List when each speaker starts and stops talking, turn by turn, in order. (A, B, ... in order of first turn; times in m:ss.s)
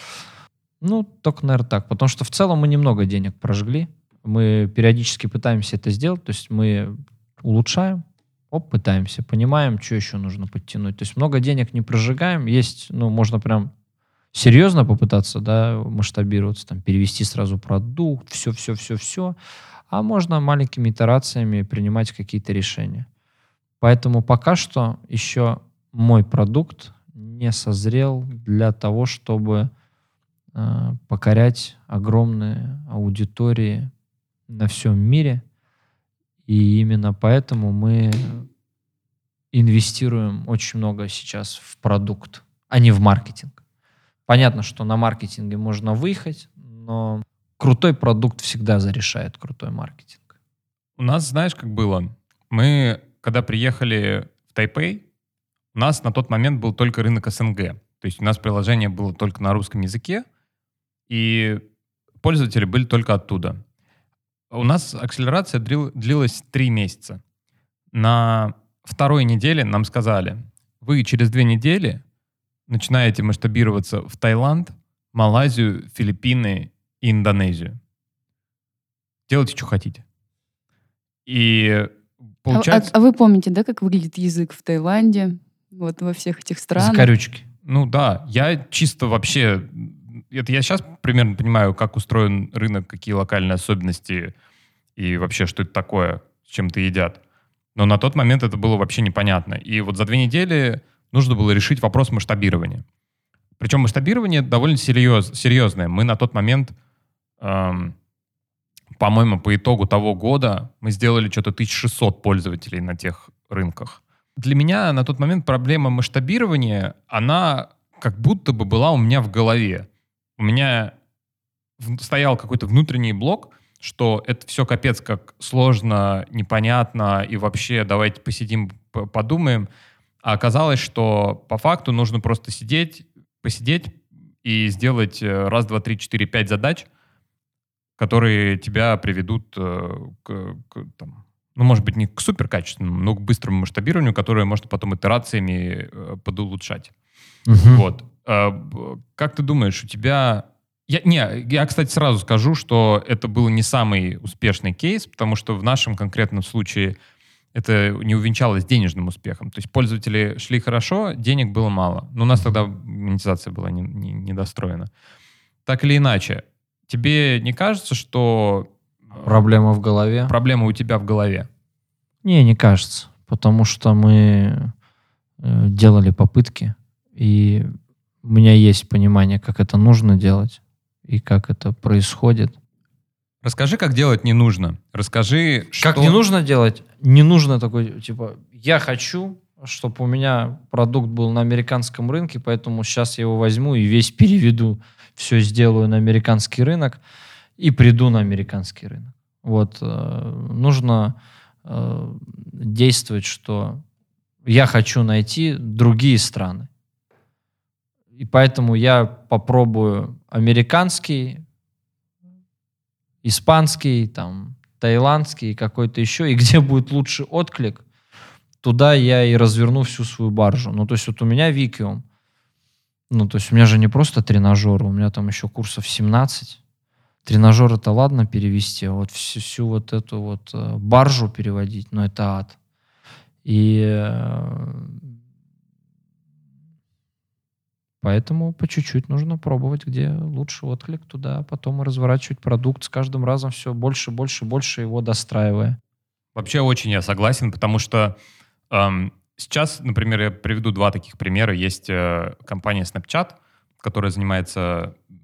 0:00.8-0:13.7 A
0:14.3-0:19.4 A
0:19.9-0:23.1 A
0:23.8-0:29.7 A
0:30.6-0:33.9 A
0:34.5-0:35.4 A
0:36.5-0:38.5 A
0:39.5-0:43.6 A
0:44.3-0:50.2 A
0:51.0-0:55.0 B
0:55.7-1:00.2 B
1:01.1-1:01.6 B
1:02.2-1:03.6 B
1:04.5-1:07.2 B
1:07.9-1:12.0 B
1:12.7-1:17.8 B
1:19.3-1:20.0 B
1:21.3-1:21.9 B
1:22.4-1:22.9 B
1:22.5-1:27.1 C
1:26.8-1:27.4 A
1:27.6-1:34.3 B
1:35.0-1:37.2 B
1:37.8-1:42.8 B
1:43.6-1:46.8 B
1:47.4-1:48.0 B
1:49.0-1:59.9 B
2:00.4-2:00.9 B
2:01.8-2:09.7 B
2:10.2-2:16.9 B
2:18.0-2:26.9 B
2:27.5-2:27.8 A
2:27.7-2:37.0 B
2:37.5-2:44.9 B
2:45.7-2:49.3 B
2:49.2-2:50.3 A
2:50.3-2:51.5 B
2:52.2-2:54.7 A
2:55.4-2:57.7 A
2:58.2-3:02.6 A
3:03.4-3:06.2 B
3:05.8-3:17.0 A
3:17.6-3:23.8 A
3:24.4-3:26.7 A
3:28.2-3:31.4 A
3:33.2-3:37.8 A
3:38.6-3:42.0 A
3:43.1-3:46.6 A
3:47.2-3:52.6 A
3:53.4-3:55.0 A
3:58.0-4:05.8 A
4:06.4-4:08.2 B
4:08.7-4:15.0 B